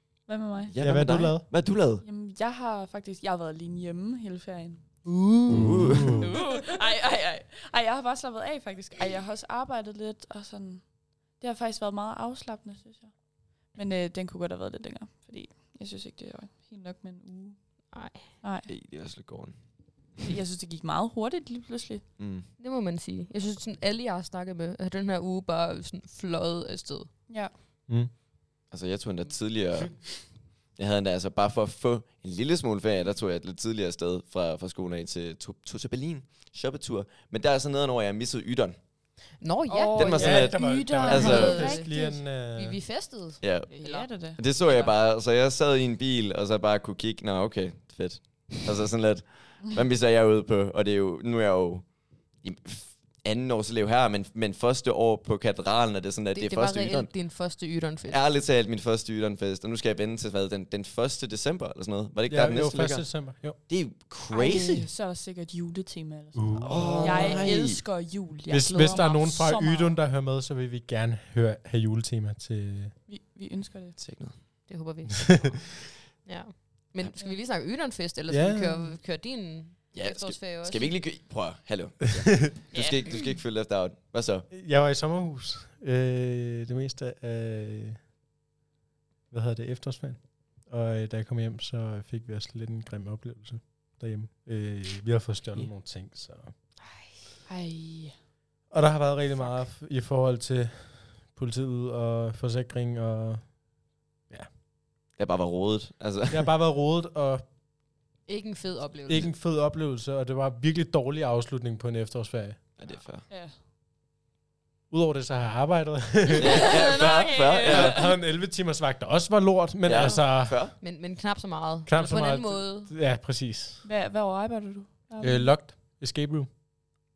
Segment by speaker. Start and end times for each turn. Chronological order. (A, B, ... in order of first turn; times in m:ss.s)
0:00.3-0:00.8 A
0:00.7-0:02.0 B
0:00.8-0:01.5 C
0:01.8-0:05.1 A
0:05.3-0:06.3 C
0:05.5-0:06.2 B
0:06.1-0:18.7 A
0:17.9-0:18.3 D
0:18.7-0:19.6 B
0:20.2-0:22.0 A
0:22.2-0:22.5 B
0:22.6-0:27.1 D
0:27.3-0:27.5 A
0:28.7-0:38.8 B
0:39.4-0:44.1 D
0:39.7-0:42.2 A
0:39.9-0:41.7 B
0:40.2-0:42.8 C
0:43.4-0:57.1 B
0:43.7-0:45.0 A
0:56.3-0:58.2 D
0:58.1-1:04.9 B
1:02.3-1:03.6 C
1:04.3-1:10.0 A
1:06.4-1:07.5 C
1:06.6-1:07.8 B
1:08.5-1:13.0 C
1:13.1-1:14.0 A
1:14.0-1:14.7 B
1:14.7-1:21.0 D
1:18.3-1:19.0 C
1:19.9-1:24.5 B
1:22.7-1:23.1 A
1:24.5-1:28.0 C
1:29.3-1:36.5 C
1:36.8-1:37.1 D
1:37.5-1:38.1 A
1:38.7-1:43.7 C
1:39.4-1:39.6 D
1:45.2-1:46.5 B
1:46.3-1:47.4 C
1:48.3-1:49.3 D
1:49.1-1:52.6 C
1:52.8-1:53.3 B
1:53.3-1:53.6 A
1:54.9-1:56.7 C
1:56.4-1:57.6 D
1:56.4-1:58.0 B
1:56.6-1:58.1 A
1:57.4-2:00.6 C
1:59.8-2:00.8 B
1:59.9-2:00.2 A
2:00.8-2:02.9 D
2:01.9-2:03.8 C
2:03.8-2:05.5 A
2:05.2-2:06.5 C